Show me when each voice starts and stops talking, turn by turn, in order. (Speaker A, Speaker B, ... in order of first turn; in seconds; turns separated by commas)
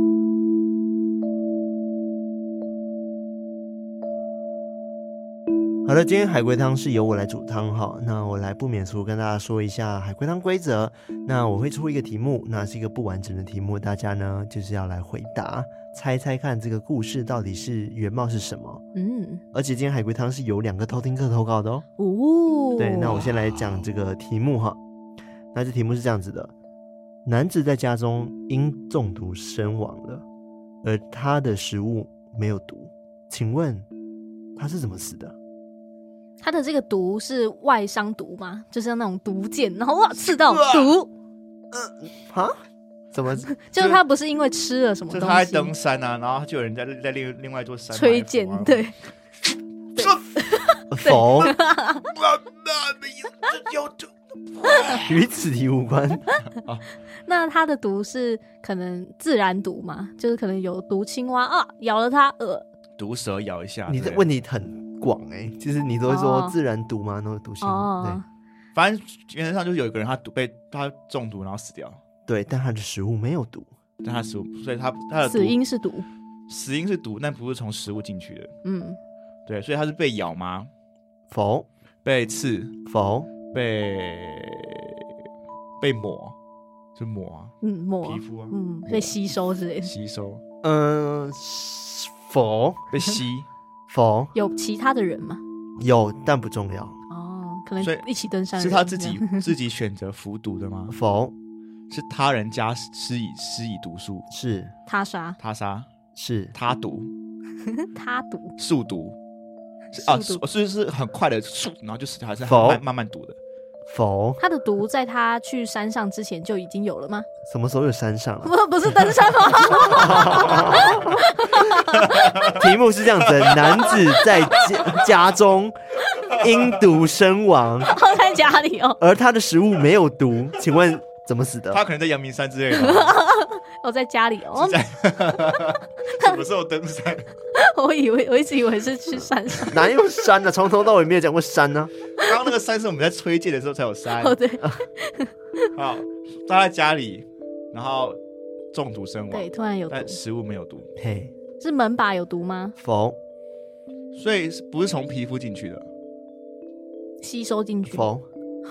Speaker A: 5.8-18.8, Speaker B: 18.9-19.4, Speaker A: 19.5-21.8, Speaker B: 22.0-23.2, Speaker A: 22.8-24.8, Speaker A: 25.5-26.5, Speaker A: 27.2-30.2, Speaker A: 30.8-33.9, Speaker A: 34.6-35.3, Speaker B: 36.4-41.1, Speaker C: 40.2-40.9, Speaker A: 41.7-42.5, Speaker A: 43.1-43.5, Speaker B: 43.5-45.7, Speaker C: 45.1-48.9, Speaker B: 47.9-48.9, Speaker B: 50.0-52.1, Speaker C: 50.0-50.4, Speaker A: 50.9-51.5, Speaker C: 52.1-55.2, Speaker A: 55.0-56.3, Speaker C: 56.5-56.8, Speaker B: 57.2-62.6, Speaker C: 63.0-64.2, Speaker A: 63.9-68.2, Speaker B: 66.0-66.5, Speaker B: 67.6-68.2, Speaker C: 68.7-72.0, Speaker A: 72.3-73.7, Speaker C: 74.0-75.6, Speaker B: 75.3-76.0, Speaker C: 76.5-78.5, Speaker B: 78.6-79.0, Speaker C: 79.5-80.7, Speaker A: 81.3-81.7, Speaker C: 82.0-82.7, Speaker A: 82.8-83.3, Speaker C: 83.5-85.0, Speaker C: 85.8-86.3, Speaker C: 87.0-89.1, Speaker B: 87.6-89.9, Speaker C: 89.8-90.4, Speaker A: 90.6-92.8, Speaker C: 92.9-93.5, Speaker A: 93.9-94.3, Speaker B: 94.3-95.4, Speaker A: 95.8-97.0, Speaker B: 97.1-99.4, Speaker C: 97.8-98.0, Speaker C: 98.6-101.0, Speaker A: 100.9-101.3, Speaker C: 101.9-104.3, Speaker A: 104.3-104.7, Speaker B: 104.9-105.4, Speaker C: 105.4-105.9, Speaker A: 106.2-106.5, Speaker C: 106.5-107.1, Speaker B: 107.7-108.5, Speaker C: 108.6-109.2, Speaker B: 109.9-110.4, Speaker C: 109.9-113.4, Speaker A: 112.4-112.8, Speaker A: 113.9-114.4, Speaker B: 114.4-117.3, Speaker A: 117.5-118.5, Speaker B: 118.4-122.2, Speaker A: 119.7-121.2, Speaker C: 121.9-122.6, Speaker A: 122.4-125.8, Speaker C: 123.2-124.9, Speaker A: 126.3-128.0, Speaker B: 127.8-129.0, Speaker A: 129.0-131.8, Speaker C: 131.7-133.2, Speaker B: 132.7-134.8, Speaker C: 134.6-137.3, Speaker B: 135.4-136.4, Speaker B: 137.5-139.9, Speaker A: 139.6-141.9, Speaker C: 142.2-144.4, Speaker B: 144.2-145.7, Speaker C: 145.7-148.2, Speaker C: 148.7-150.9, Speaker B: 149.3-150.2, Speaker A: 151.0-151.3, Speaker B: 151.6-152.8, Speaker A: 152.8-153.2, Speaker C: 154.1-155.8, Speaker B: 157.2-158.1, Speaker A: 157.9-158.2